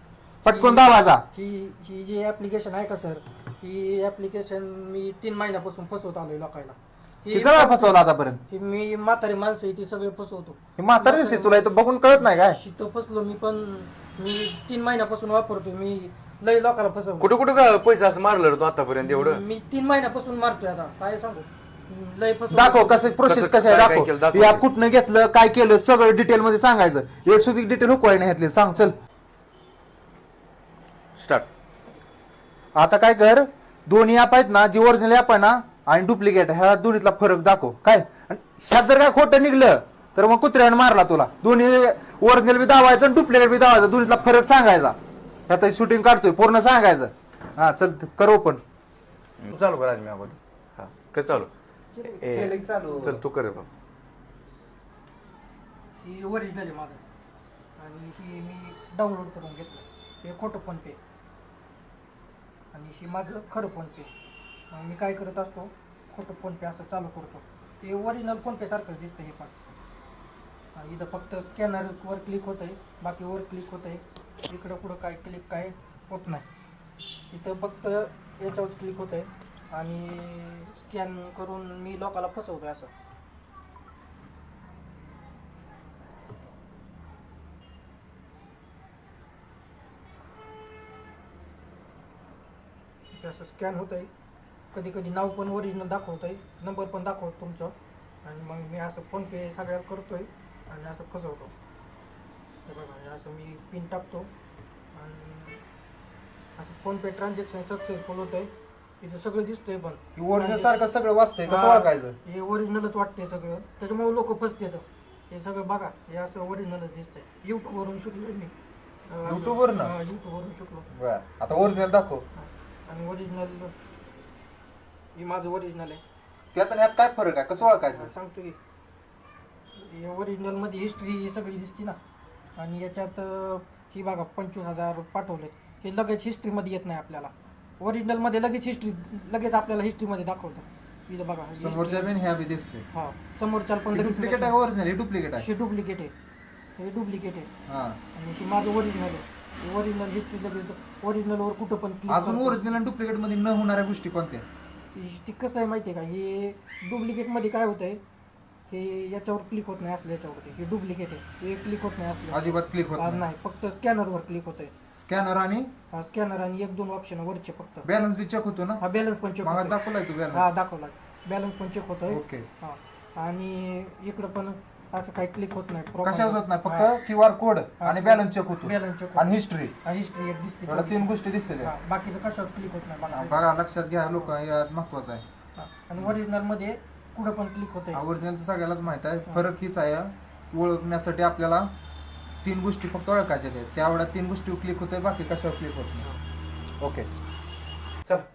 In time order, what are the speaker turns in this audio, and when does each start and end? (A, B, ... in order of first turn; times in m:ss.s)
0:00.4-0:01.2 A
0:00.4-0:17.3 B
0:07.3-0:08.4 A
0:10.8-0:12.6 A
0:17.2-0:19.4 C
0:19.0-0:23.2 B
0:22.5-0:28.9 A
0:23.2-0:24.6 C
0:31.2-0:31.5 C
0:32.7-0:45.0 A
0:45.5-0:48.6 A
0:49.4-0:51.5 C
0:52.0-0:53.2 A
0:52.0-0:53.7 C
0:56.0-0:57.0 B
0:57.8-1:01.0 B
1:02.7-1:04.1 B
1:04.7-1:09.5 B
1:10.7-1:16.4 B
1:17.3-1:22.9 B
1:33.1-1:34.1 B
1:34.7-1:41.5 B
1:42.6-1:44.3 B
1:44.9-1:45.6 B
1:46.6-1:50.7 B
1:50.2-1:52.2 A
1:51.5-1:58.5 B
1:59.1-2:00.9 B
1:59.2-1:59.9 A
2:00.9-2:02.2 A
2:02.4-2:03.7 B
2:05.1-2:06.0 B
2:06.5-2:08.1 A
2:07.6-2:08.6 B
2:09.7-2:12.0 B
2:12.6-2:22.1 B
2:21.6-2:22.8 A
2:22.9-2:24.6 B
2:23.9-2:25.5 A
2:25.4-2:26.1 B
2:26.8-2:27.5 B
2:27.7-2:28.0 A
2:28.1-2:32.7 B
2:32.1-2:34.4 A
2:34.9-2:38.0 B
2:38.7-2:44.7 B
2:42.3-2:43.2 A
2:45.0-2:45.7 A
2:45.9-2:47.9 B
2:47.8-2:48.8 A
2:48.8-2:49.8 B
2:49.4-2:50.5 A
2:50.3-2:56.9 B
2:52.1-2:52.5 A
2:56.0-2:59.7 A
2:57.8-2:59.3 B
2:59.8-3:03.5 B
3:00.7-3:01.7 A
3:03.0-3:05.2 A
3:05.6-3:08.0 B
3:07.9-3:11.7 A
3:12.4-3:16.0 A
3:16.8-3:17.1 A